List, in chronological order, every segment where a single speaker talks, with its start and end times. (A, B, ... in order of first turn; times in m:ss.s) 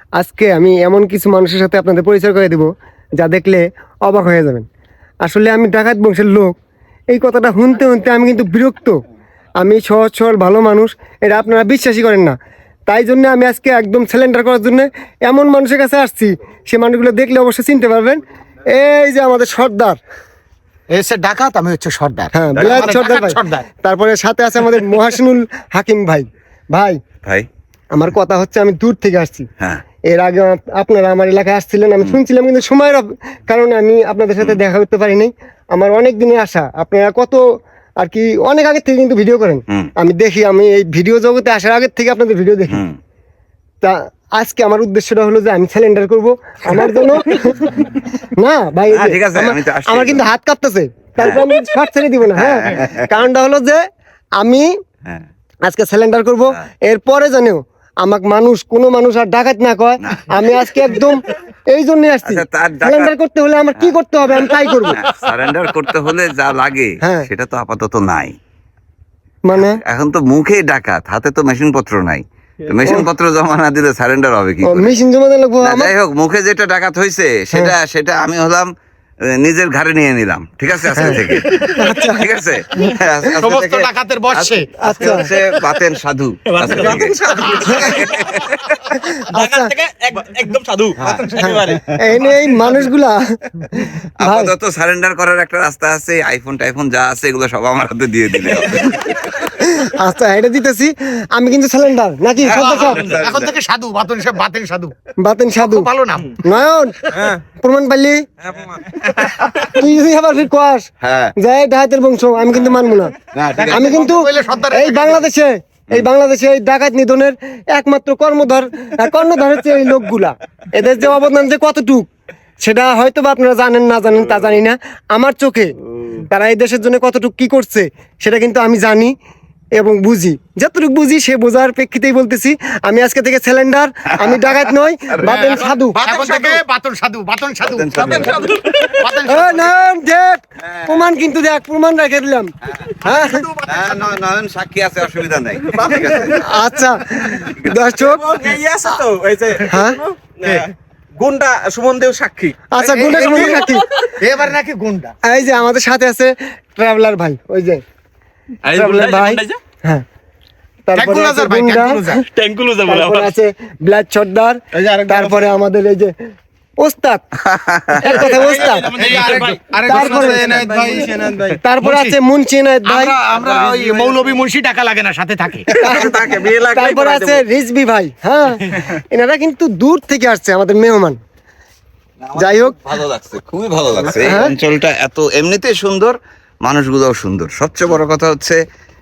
0:00.2-0:04.6 A
0:05.2-0:06.5 A
0:07.1-0:09.0 A
0:09.6-0:12.4 A
0:12.9-0:20.0 A
0:20.9-0:23.7 B
0:22.3-0:27.0 A
0:27.9-0:29.5 A
0:30.1-0:42.8 A
0:42.7-0:43.0 C
0:43.8-0:53.8 A
0:48.9-0:50.2 C
0:51.2-0:51.5 C
0:52.4-0:53.0 C
0:54.4-0:54.7 A
0:55.7-1:05.0 A
1:00.0-1:00.7 C
1:02.2-1:03.1 C
1:04.6-1:08.3 C
1:07.0-1:07.3 A
1:09.4-1:09.8 A
1:09.5-1:15.0 C
1:14.6-1:15.9 A
1:15.6-1:18.7 C
1:19.3-1:28.8 C
1:21.7-1:22.2 A
1:23.4-1:24.7 B
1:24.8-1:25.3 A
1:26.6-1:28.4 D
1:26.6-1:28.1 B
1:28.9-1:29.7 A
1:29.3-1:31.8 D
1:31.0-1:32.0 C
1:31.4-1:34.5 A
1:34.2-1:39.5 C
1:39.5-1:43.0 A
1:42.4-1:43.5 C
1:42.5-1:44.9 B
1:45.2-1:48.2 A
1:45.6-1:46.4 B
1:49.5-1:53.1 A
1:51.0-1:51.3 C
1:53.3-1:54.0 C
1:53.5-1:55.2 B
1:53.7-2:02.1 A
2:02.6-2:09.1 A
2:09.8-2:16.0 A
2:14.2-2:15.4 C
2:15.2-2:19.7 B
2:16.1-2:16.5 D
2:17.6-2:18.5 C
2:17.9-2:19.0 D
2:19.2-2:23.5 A
2:20.6-2:21.1 C
2:23.0-2:24.0 B
2:23.6-2:26.6 C
2:26.3-2:28.2 A
2:27.3-2:27.8 C
2:28.0-2:34.2 D
2:29.7-2:30.0 A
2:32.7-2:33.8 A
2:32.9-2:33.6 B
2:34.2-2:35.1 B
2:35.2-2:37.8 A
2:38.6-2:39.6 D
2:38.6-2:40.0 A
2:40.9-2:42.1 A
2:40.9-2:42.2 B
2:42.3-2:43.3 D
2:42.8-2:46.1 A
2:44.7-2:45.4 B
2:46.8-2:47.2 A
2:47.4-2:48.2 C
2:48.0-2:49.0 A
2:48.1-2:51.4 D
2:49.0-2:52.1 B
2:49.8-2:50.7 A
2:51.6-2:53.2 A
2:52.8-2:55.7 B
2:53.3-2:54.3 D
2:55.7-2:57.4 D
2:55.8-3:01.2 A
3:02.2-3:08.6 C
3:02.4-3:02.8 A
3:04.0-3:04.5 A